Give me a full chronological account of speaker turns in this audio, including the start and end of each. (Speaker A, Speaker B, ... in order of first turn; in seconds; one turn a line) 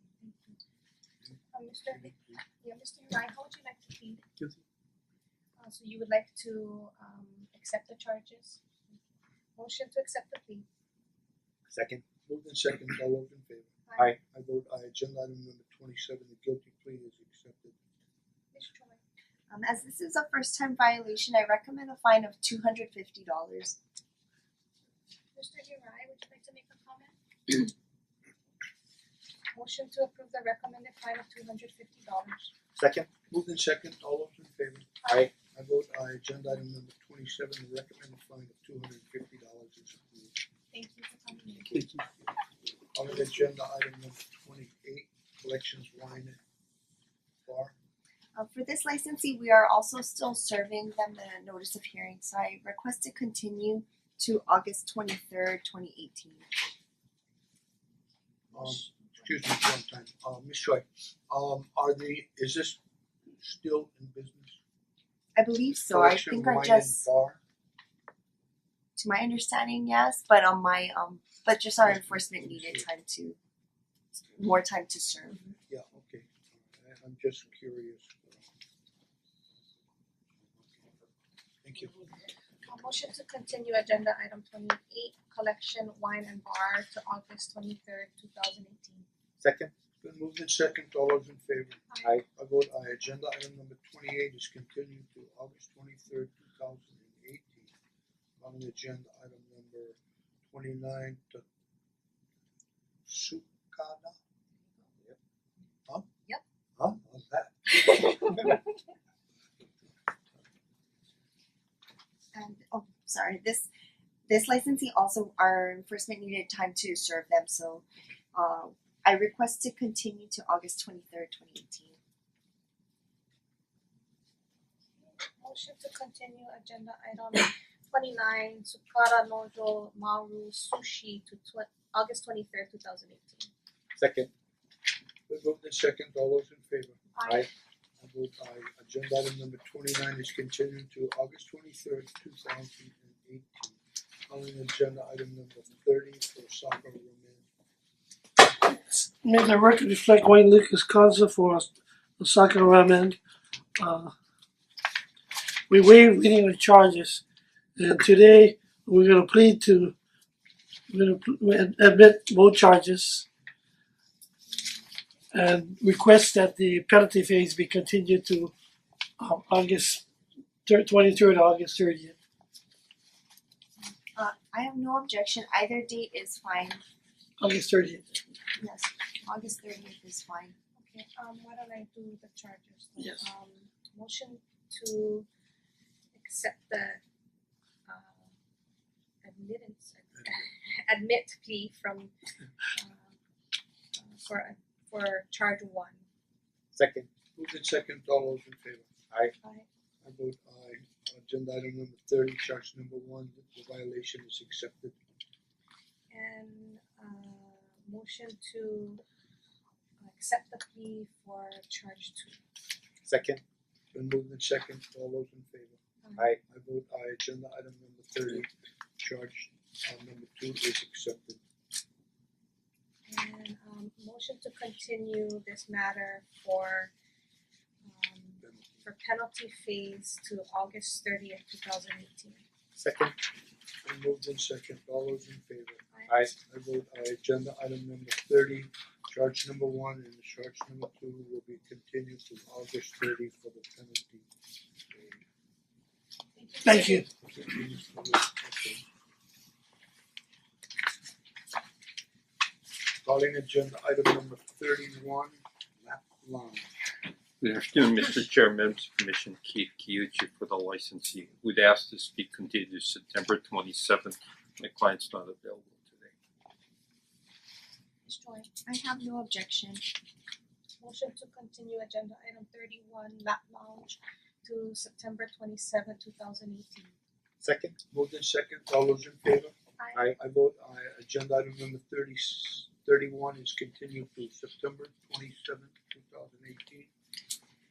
Speaker A: 0.2-0.6
Speaker A: 1.5-4.2
Speaker A: 5.6-8.6
Speaker A: 9.6-10.7
Speaker B: 11.7-12.0
Speaker C: 12.2-17.7
Speaker A: 18.5-19.0
Speaker D: 19.5-23.8
Speaker A: 25.3-27.7
Speaker A: 29.5-32.5
Speaker B: 32.8-33.1
Speaker C: 33.3-35.0
Speaker B: 35.0-35.3
Speaker C: 35.5-40.3
Speaker A: 40.7-41.8
Speaker C: 42.9-46.4
Speaker C: 47.5-47.7
Speaker D: 48.4-56.5
Speaker C: 58.5-62.8
Speaker A: 58.6-59.3
Speaker C: 63.4-64.6
Speaker D: 65.3-67.0
Speaker C: 65.9-67.4
Speaker D: 69.0-73.4
Speaker C: 71.8-72.8
Speaker D: 74.3-75.4
Speaker C: 75.7-78.5
Speaker C: 81.6-81.9
Speaker A: 82.6-89.0
Speaker B: 89.4-89.7
Speaker C: 90.0-97.7
Speaker C: 98.4-100.0
Speaker C: 100.5-101.4
Speaker C: 103.0-104.1
Speaker C: 106.8-107.6
Speaker A: 107.7-108.7
Speaker D: 112.3-113.7
Speaker D: 114.3-122.0
Speaker A: 125.2-133.5
Speaker B: 133.9-134.3
Speaker C: 135.3-137.0
Speaker A: 137.1-137.5
Speaker C: 138.0-147.4
Speaker E: 148.6-153.2
Speaker E: 153.8-154.1
Speaker E: 155.7-157.2
Speaker E: 157.8-159.9
Speaker E: 160.9-163.2
Speaker E: 165.3-168.5
Speaker E: 169.2-170.0
Speaker E: 170.7-172.1
Speaker D: 174.1-176.8
Speaker E: 177.4-178.2
Speaker D: 178.6-180.5
Speaker A: 180.7-185.2
Speaker A: 186.1-187.0
Speaker A: 187.8-188.3
Speaker A: 189.2-192.1
Speaker A: 192.7-193.1
Speaker A: 193.9-196.0
Speaker B: 196.7-197.1
Speaker C: 197.3-198.9
Speaker C: 200.0-204.9
Speaker A: 206.1-209.0
Speaker A: 210.0-212.4
Speaker B: 213.1-213.4
Speaker C: 213.9-215.8
Speaker C: 216.5-221.4
Speaker A: 223.1-226.9
Speaker A: 227.8-232.4
Speaker C: 228.4-228.8
Speaker B: 232.8-233.1
Speaker C: 233.8-235.8
Speaker C: 236.3-244.2
Speaker A: 246.3-247.1
Speaker E: 246.6-247.1
Speaker C: 247.2-248.8
Speaker C: 253.0-256.7
Speaker F: 257.4-266.1
Speaker A: 268.0-268.5
Speaker D: 268.6-269.8
Speaker A: 270.8-276.9
Speaker B: 277.4-277.8
Speaker C: 277.9-279.5
Speaker A: 279.8-280.1
Speaker C: 280.2-286.9